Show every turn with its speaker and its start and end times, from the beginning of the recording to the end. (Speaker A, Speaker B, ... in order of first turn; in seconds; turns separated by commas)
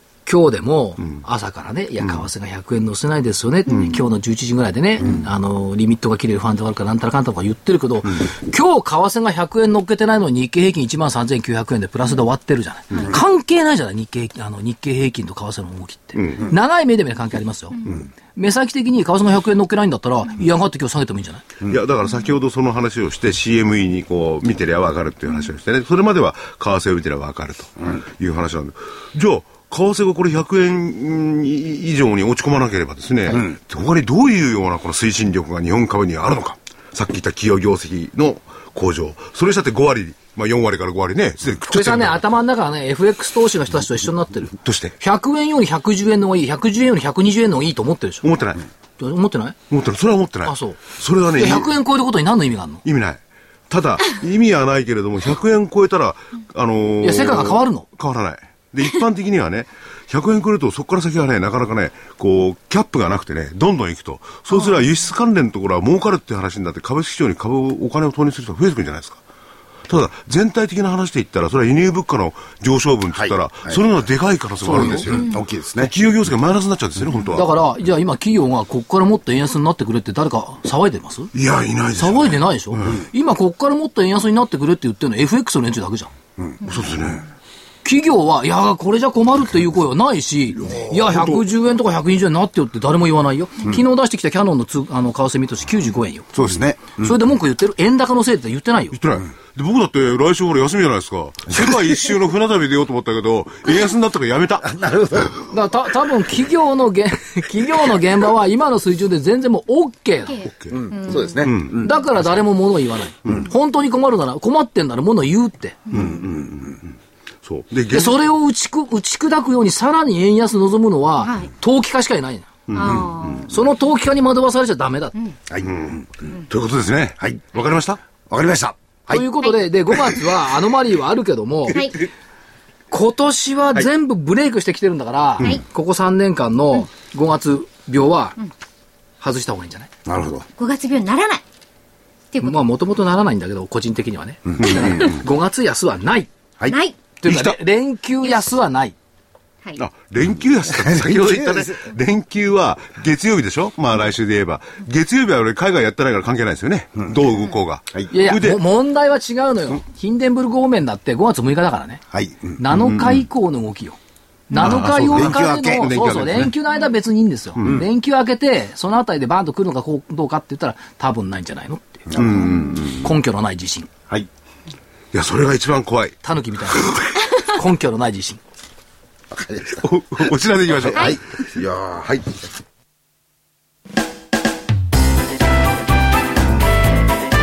Speaker A: 0.3-21.4, Speaker B: 3.7-4.0, Speaker B: 16.2-16.5, Speaker B: 21.6-42.2, Speaker A: 41.7-48.3, Speaker B: 44.6-45.0, Speaker B: 48.2-48.7, Speaker A: 49.0-49.6, Speaker B: 49.7-51.7, Speaker A: 50.5-50.8, Speaker A: 51.4-52.8, Speaker B: 52.8-69.2, Speaker A: 57.0-57.9, Speaker B: 69.9-77.5, Speaker C: 73.1-73.8, Speaker A: 74.6-75.1, Speaker C: 74.7-75.9, Speaker A: 77.3-81.3, Speaker B: 81.3-83.0, Speaker A: 82.0-86.1, Speaker B: 86.6-87.3, Speaker A: 87.8-96.3, Speaker B: 91.1-91.4, Speaker C: 96.3-97.2, Speaker A: 97.0-99.0, Speaker B: 98.9-104.7, Speaker C: 104.6-105.5, Speaker A: 105.5-110.5, Speaker D: 110.3-111.4, Speaker B: 110.4-110.8, Speaker C: 110.7-111.9, Speaker B: 111.4-111.9, Speaker A: 111.8-115.8, Speaker C: 115.9-116.8, Speaker B: 115.9-116.8, Speaker B: 117.4-118.2, Speaker A: 117.9-122.5, Speaker D: 121.2-121.5, Speaker B: 122.7-123.5, Speaker D: 122.7-123.5, Speaker C: 122.8-123.1, Speaker A: 123.5-125.3, Speaker C: 125.5-126.0, Speaker B: 125.6-128.0, Speaker C: 128.3-129.3, Speaker A: 129.1-131.9, Speaker D: 131.7-132.0, Speaker A: 132.9-138.4, Speaker A: 139.2-139.9, Speaker C: 140.1-140.5, Speaker D: 140.6-141.4, Speaker D: 142.3-142.6, Speaker A: 142.4-146.3, Speaker C: 144.5-144.8, Speaker B: 144.6-145.2, Speaker D: 146.7-147.0, Speaker A: 147.2-148.9, Speaker B: 147.3-147.6, Speaker B: 149.8-158.6, Speaker C: 150.7-151.8, Speaker A: 158.1-162.0, Speaker C: 162.1-162.6, Speaker A: 162.6-164.0, Speaker B: 162.7-163.2, Speaker A: 164.5-172.2, Speaker B: 164.6-166.5, Speaker C: 164.6-165.9, Speaker C: 172.1-172.5, Speaker B: 172.2-173.1, Speaker A: 172.9-173.9, Speaker B: 175.1-176.2, Speaker A: 176.2-178.4, Speaker C: 179.3-179.8, Speaker B: 179.8-181.2, Speaker C: 180.7-182.4